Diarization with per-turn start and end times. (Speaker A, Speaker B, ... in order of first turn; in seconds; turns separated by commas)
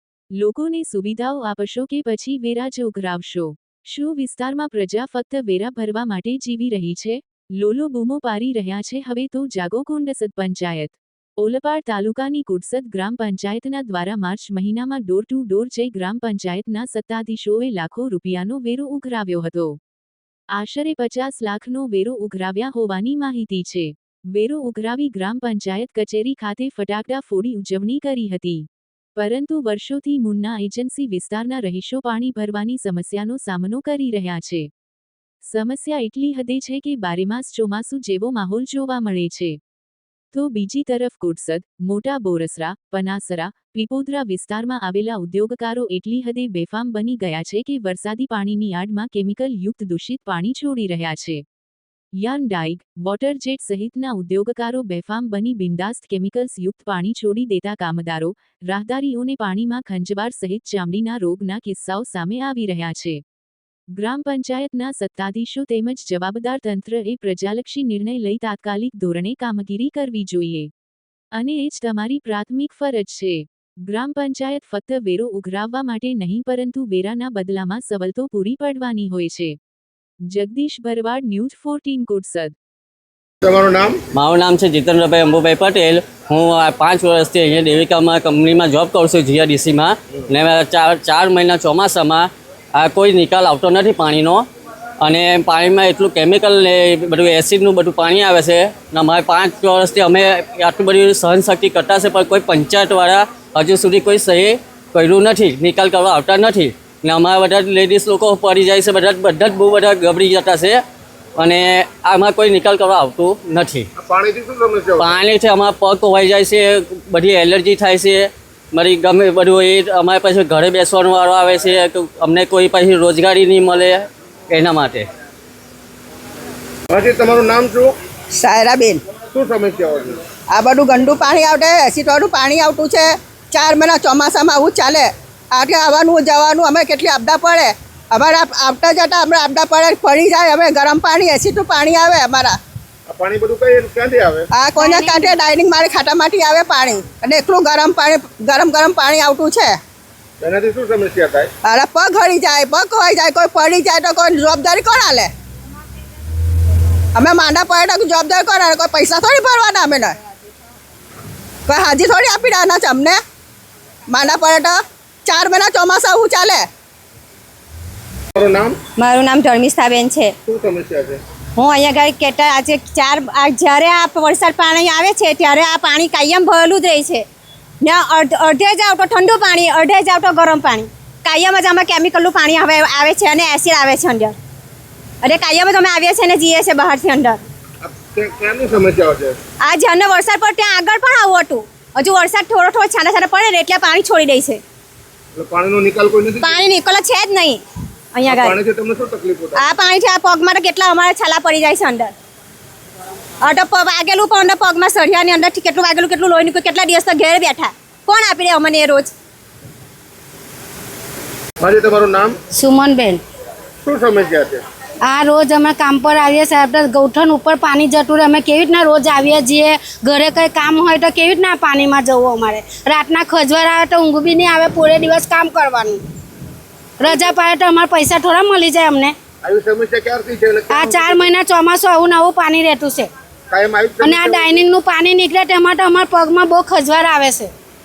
Speaker A: 0.4-19.8, Speaker A: 20.6-34.7, Speaker A: 35.4-39.6, Speaker A: 40.3-51.4, Speaker A: 52.2-63.2, Speaker A: 64.0-70.7, Speaker A: 71.3-79.6, Speaker A: 80.3-82.5, Speaker B: 83.4-84.0, Speaker C: 84.1-94.5, Speaker C: 95.0-110.8, Speaker C: 111.4-113.8, Speaker B: 114.0-115.2, Speaker C: 115.0-125.1, Speaker B: 126.9-128.0, Speaker D: 128.3-129.0, Speaker B: 129.3-130.2, Speaker D: 130.5-142.6, Speaker B: 143.1-144.5, Speaker D: 144.5-149.8, Speaker E: 144.8-145.3, Speaker B: 150.4-151.5, Speaker D: 151.6-155.3, Speaker D: 157.1-160.1, Speaker D: 161.7-163.2, Speaker D: 164.1-166.6, Speaker B: 168.3-168.8, Speaker E: 169.0-170.3, Speaker B: 170.4-171.2, Speaker E: 171.6-177.2, Speaker E: 177.8-184.3, Speaker E: 185.2-187.4, Speaker B: 187.8-189.4, Speaker E: 189.6-194.6, Speaker B: 195.3-196.6, Speaker E: 196.4-197.6, Speaker E: 198.1-198.6, Speaker B: 198.2-199.6, Speaker E: 199.6-202.1, Speaker E: 203.4-209.1, Speaker B: 211.6-212.3, Speaker F: 212.5-213.2, Speaker B: 213.8-214.6, Speaker F: 215.0-226.0, Speaker F: 227.0-229.1, Speaker B: 229.4-231.3, Speaker F: 230.7-233.1, Speaker B: 233.5-234.7, Speaker F: 234.0-237.5